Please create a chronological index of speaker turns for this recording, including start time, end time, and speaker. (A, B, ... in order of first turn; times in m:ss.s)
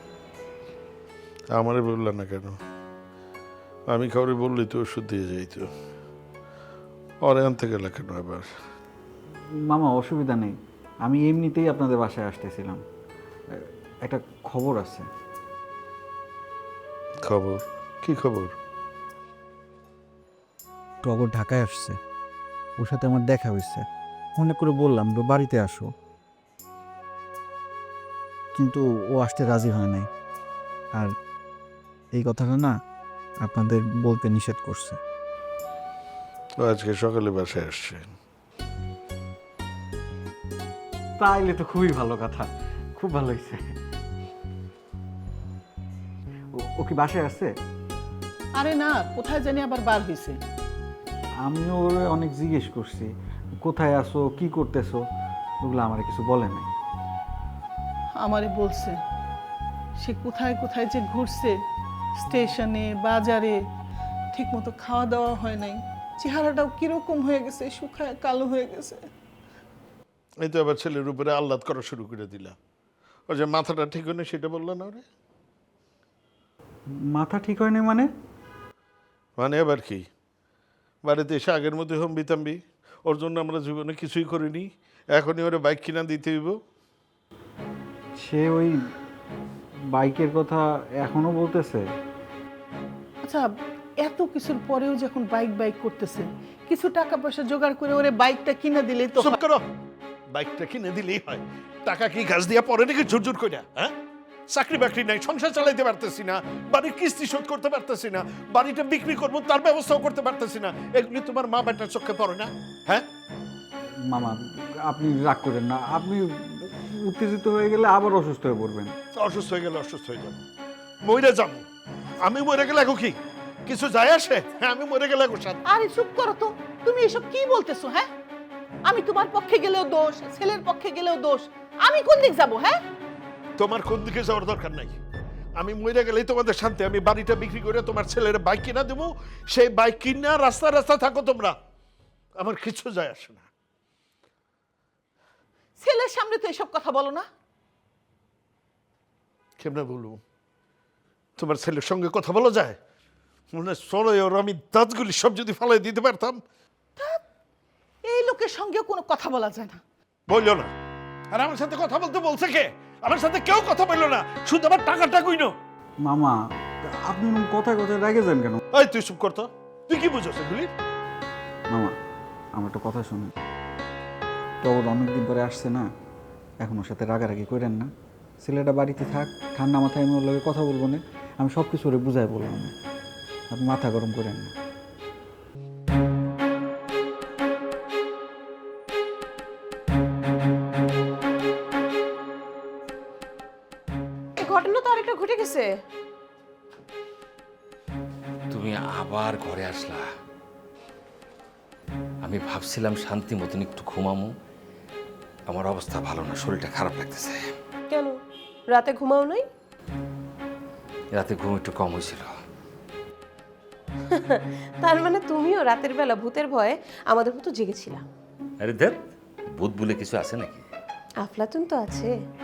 0:01.5-0:02.6 A
0:03.9-0:05.7 A
0:07.2-0:08.5 A
0:09.7-0:12.8 B
0:14.0-0:15.1 B
0:17.2-0:18.5 A
0:21.0-0:22.0 B
0:22.8-0:23.8 B
0:24.4-0:25.9 B
0:28.6-0:30.1 B
0:32.1-0:32.7 B
0:33.4-0:35.0 B
0:36.6-0:38.0 A
0:41.2-0:43.7 B
0:46.8-0:47.5 B
0:48.6-0:50.4 C
0:51.4-0:53.1 B
0:53.6-0:55.0 B
0:55.6-0:56.7 B
0:58.2-0:59.0 C
1:00.0-1:01.6 C
1:02.2-1:03.6 C
1:04.3-1:09.0 C
1:10.4-1:12.6 A
1:13.3-1:15.0 A
1:17.1-1:18.1 B
1:19.4-1:20.1 A
1:21.0-1:26.6 A
1:28.2-1:28.8 B
1:29.9-1:31.8 B
1:33.2-1:39.4 C
1:39.2-1:39.6 A
1:40.3-1:43.9 A
1:44.5-1:53.0 A
1:54.1-1:58.9 B
1:59.2-2:00.4 A
2:01.0-2:01.6 A
2:02.2-2:05.6 A
2:05.7-2:08.1 C
2:08.8-2:12.8 C
2:13.6-2:14.9 A
2:15.6-2:21.5 A
2:22.4-2:23.5 A
2:25.8-2:27.2 C
2:29.6-2:30.2 A
2:31.4-2:32.8 A
2:33.5-2:36.4 A
2:38.1-2:39.8 C
2:40.3-2:40.7 A
2:41.3-2:45.6 A
2:46.0-2:46.3 B
2:47.1-2:48.6 B
2:48.7-2:50.7 A
2:52.6-2:53.3 B
2:54.6-2:55.9 B
2:56.6-2:57.9 B
2:58.4-3:02.7 B
3:03.5-3:04.5 B
3:14.4-3:15.7 D
3:18.5-3:20.0 E
3:22.2-3:24.3 E
3:25.5-3:27.5 E
3:27.9-3:28.2 D
3:28.7-3:29.4 D
3:31.2-3:32.3 E
3:34.1-3:38.0 D
3:38.6-3:39.0 E
3:39.6-3:40.6 E
3:41.2-3:42.1 D